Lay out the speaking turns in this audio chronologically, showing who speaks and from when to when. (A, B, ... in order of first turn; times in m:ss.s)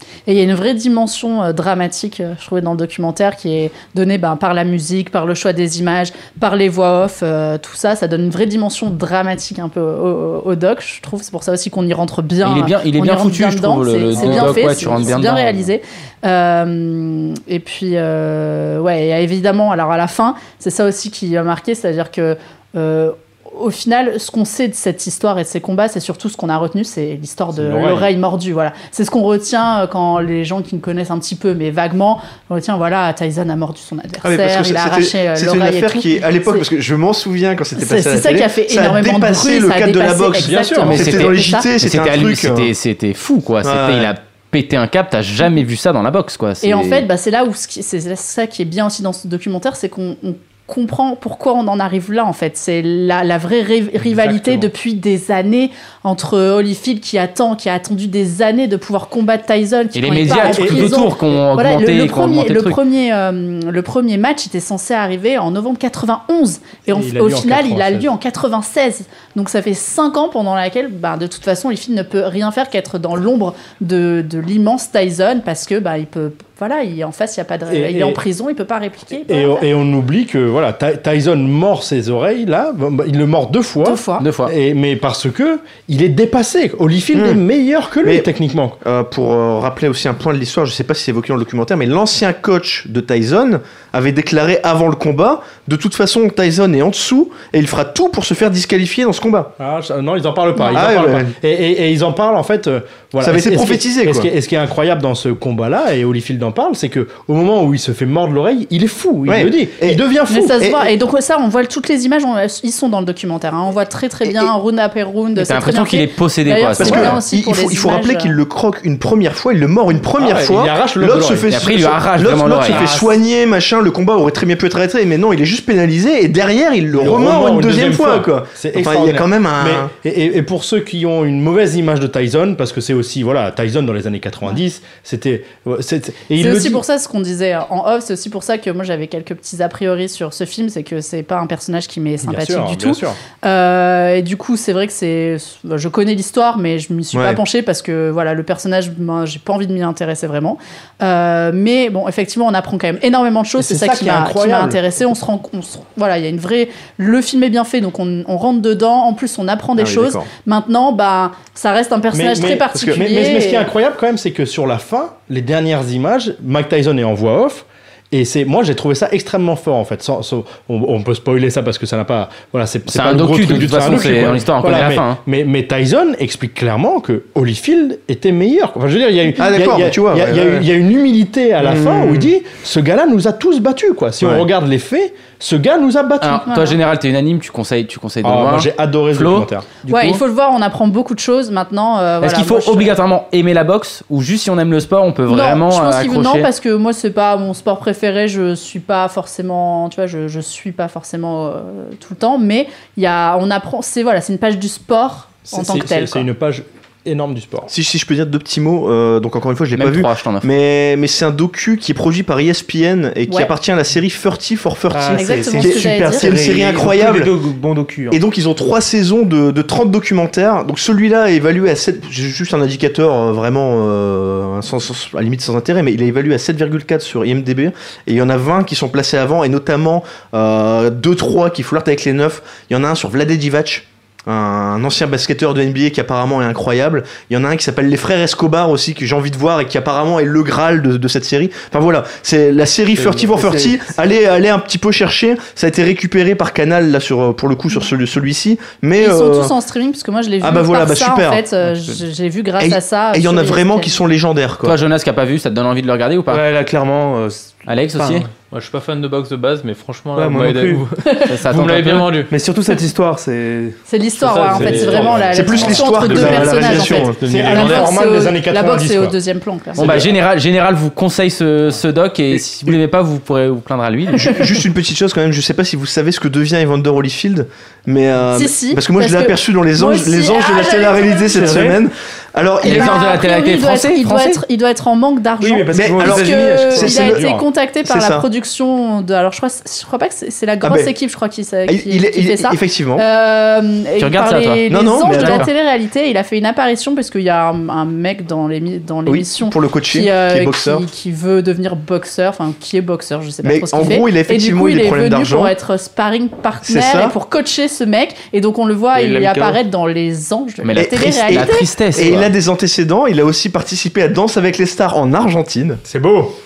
0:00.2-0:36.6 A
0:12.4-0:15.7 B
0:14.1-0:15.2 C
0:27.5-0:28.1 C
0:34.2-0:42.7 D
0:37.8-0:41.7 A
0:40.4-0:41.0 C
0:40.8-0:47.0 B
0:43.6-0:44.1 D
0:46.6-1:19.7 A
0:54.0-0:54.7 C
0:59.9-1:02.8 B
1:00.3-1:01.1 C
1:06.9-1:08.1 C
1:17.7-1:18.2 C
1:19.3-1:28.8 C
1:23.8-1:24.2 A
1:24.2-1:24.5 B
1:27.1-1:27.4 D
1:28.8-1:39.5 D
1:39.6-1:50.8 C
1:40.6-1:40.8 A
1:40.7-1:41.3 D
1:43.2-1:44.3 D
1:49.2-1:50.0 D
1:50.3-1:58.4 A
1:50.6-1:50.9 D
1:55.4-1:57.2 B
1:56.8-2:09.9 D
2:00.1-2:01.5 C
2:01.5-2:02.9 B
2:02.7-2:03.1 C
2:06.9-2:16.8 C
2:16.4-2:43.7 A
2:22.2-2:23.2 C
2:27.1-2:27.4 D
2:33.6-2:34.8 C
2:39.8-2:40.3 D
2:42.1-3:06.5 C
2:52.9-2:55.2 B
2:59.4-3:00.6 D
3:01.6-3:02.2 D
3:04.2-3:04.4 D
3:06.2-3:10.2 B
3:06.4-3:06.8 A
3:08.2-3:09.7 C
3:09.9-3:12.9 A
3:12.2-3:16.5 B
3:15.3-3:26.3 A
3:25.5-3:27.7 C
3:27.7-3:37.3 D
3:29.7-3:30.5 B
3:34.9-3:38.2 E
3:35.1-3:36.3 A
3:38.1-4:09.5 D
4:03.0-4:03.8 E
4:09.0-4:14.0 A
4:10.4-4:11.4 D
4:12.6-4:14.8 D
4:14.6-4:16.4 B
4:16.3-4:18.3 E
4:17.7-4:18.3 B
4:18.4-4:22.3 F
4:20.1-4:20.8 E
4:21.3-4:22.3 B
4:22.3-4:23.8 E
4:23.9-4:29.9 A
4:24.2-4:25.3 F
4:24.5-4:29.2 C
4:25.3-4:27.2 D
4:26.0-4:27.2 E
4:27.3-4:27.8 F
4:29.8-4:34.4 B
4:29.8-4:30.1 C
4:34.2-4:43.0 D
4:38.3-4:41.6 A
4:41.3-4:41.8 E
4:42.6-4:44.4 B
4:42.6-5:11.7 A
4:45.4-4:46.9 E
4:45.7-4:47.2 D
4:46.3-4:47.4 C
4:47.8-4:48.2 D
4:50.6-4:50.9 D
4:51.7-4:53.0 D
4:54.0-4:55.5 B
4:54.7-4:55.5 D
4:59.1-5:00.9 D
5:03.4-5:05.5 D
5:06.6-5:07.1 D
5:08.9-5:09.6 E
5:10.6-5:12.3 B
5:10.7-5:15.8 D
5:15.8-5:16.4 C